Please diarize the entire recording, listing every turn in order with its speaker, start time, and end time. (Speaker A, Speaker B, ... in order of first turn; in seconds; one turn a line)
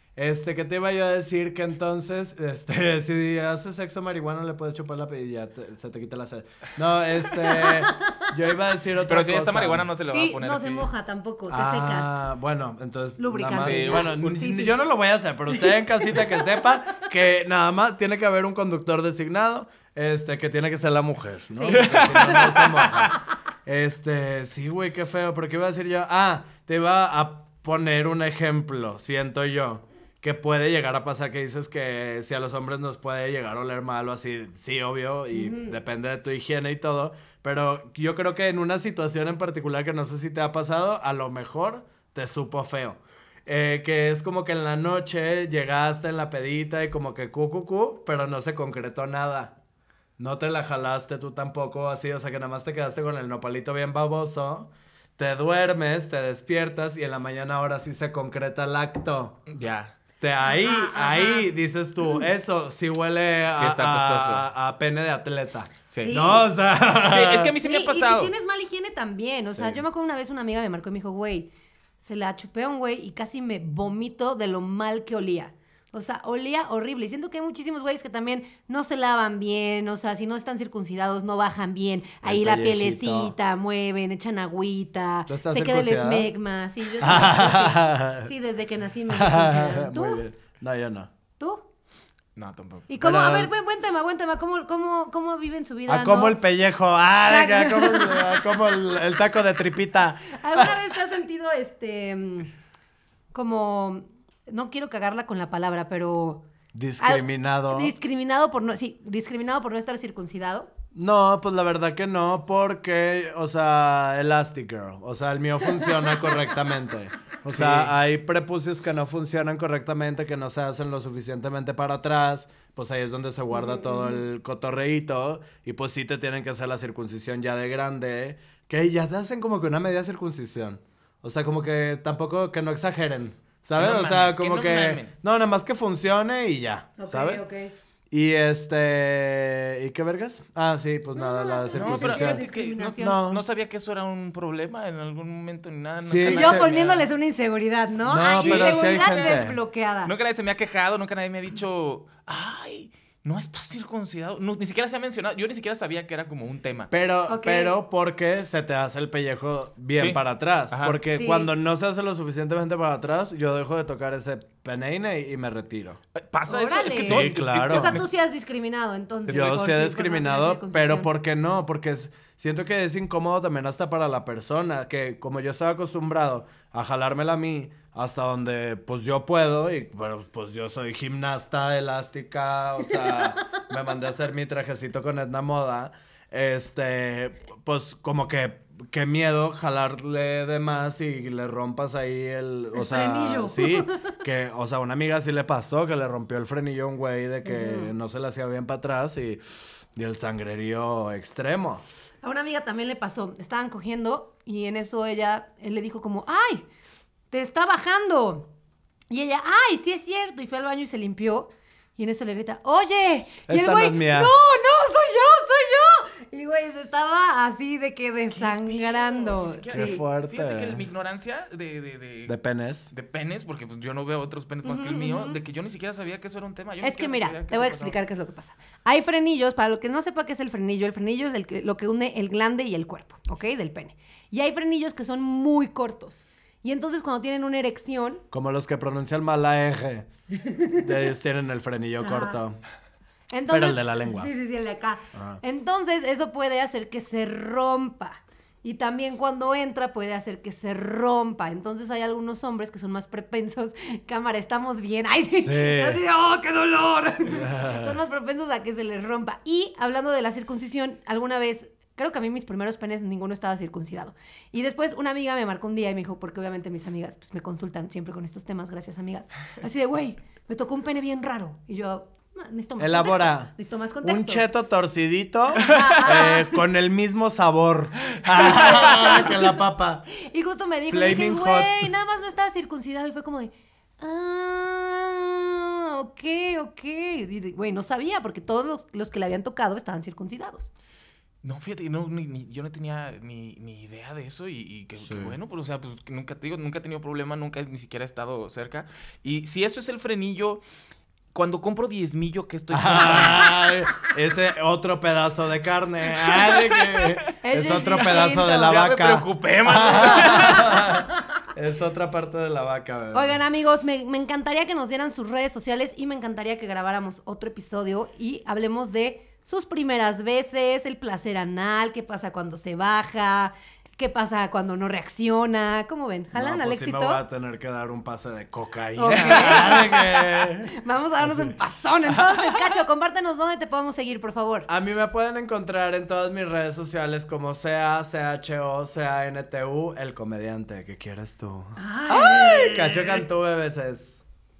Speaker A: 0.1-9.9
Speaker B: 7.4-8.3
Speaker C: 9.1-10.9
Speaker B: 10.1-12.2
Speaker A: 11.5-49.5
Speaker B: 13.2-14.7
Speaker C: 13.6-14.4
Speaker B: 15.5-16.4
Speaker B: 21.6-22.4
Speaker C: 21.7-23.1
Speaker B: 35.3-35.8
Speaker A: 50.2-59.4
Speaker C: 59.5-59.9
Speaker A: 60.2-67.6
Speaker B: 60.4-61.5
Speaker C: 63.5-64.4
Speaker C: 65.9-66.2
Speaker B: 66.0-66.5
Speaker C: 67.0-68.3
Speaker B: 67.6-90.2
Speaker A: 69.5-69.8
Speaker A: 82.2-83.3
Speaker A: 85.3-86.3
Speaker A: 87.0-88.3
Speaker A: 89.1-91.1
Speaker B: 91.4-91.7
Speaker C: 92.3-92.9
Speaker B: 92.9-96.4
Speaker A: 93.0-93.5
Speaker A: 95.9-100.8
Speaker B: 97.3-98.8
Speaker B: 100.3-102.5
Speaker B: 103.3-106.5
Speaker A: 106.7-107.9
Speaker B: 107.0-110.7
Speaker A: 110.9-137.4
Speaker C: 117.5-117.9
Speaker B: 123.5-124.2
Speaker C: 133.8-135.1
Speaker B: 137.0-137.7
Speaker A: 138.1-142.4
Speaker B: 141.1-143.2
Speaker C: 141.7-147.1
Speaker A: 143.0-143.4
Speaker A: 146.0-146.7
Speaker B: 146.2-150.1
Speaker A: 148.1-149.6
Speaker C: 148.4-149.5
Speaker C: 150.0-156.9
Speaker A: 156.9-166.0
Speaker B: 157.3-157.8
Speaker C: 159.9-161.0
Speaker B: 161.1-161.5
Speaker C: 166.2-168.1
Speaker B: 166.4-171.1
Speaker A: 166.9-168.0
Speaker A: 169.3-201.8
Speaker B: 182.9-183.4
Speaker B: 192.7-194.1
Speaker B: 197.4-197.9
Speaker B: 202.2-206.7
Speaker B: 207.3-208.5
Speaker B: 209.1-220.0
Speaker A: 213.5-214.3
Speaker C: 218.3-222.3
Speaker A: 219.7-220.8
Speaker A: 222.3-222.9
Speaker C: 222.9-228.0
Speaker B: 224.6-225.4
Speaker B: 226.8-238.2
Speaker A: 238.3-240.1
Speaker B: 240.3-240.8
Speaker A: 240.7-242.6
Speaker B: 242.0-242.4
Speaker B: 243.3-274.4
Speaker A: 243.5-244.3
Speaker A: 245.1-245.4
Speaker A: 255.4-256.0
Speaker A: 257.3-257.9
Speaker A: 272.8-280.1
Speaker B: 275.5-276.6
Speaker C: 278.1-278.7
Speaker B: 278.4-279.5
Speaker B: 280.1-290.7
Speaker A: 280.9-281.9
Speaker C: 291.4-300.6
Speaker A: 295.0-295.4
Speaker C: 301.3-303.8
Speaker A: 302.7-313.4
Speaker C: 306.2-307.2
Speaker B: 307.4-308.8
Speaker C: 308.1-310.9
Speaker B: 310.2-310.9
Speaker B: 313.1-327.2
Speaker A: 326.3-331.6
Speaker B: 329.0-334.7
Speaker C: 329.1-329.8
Speaker A: 334.7-341.8
Speaker B: 341.8-342.8
Speaker C: 342.1-343.2
Speaker A: 342.6-344.2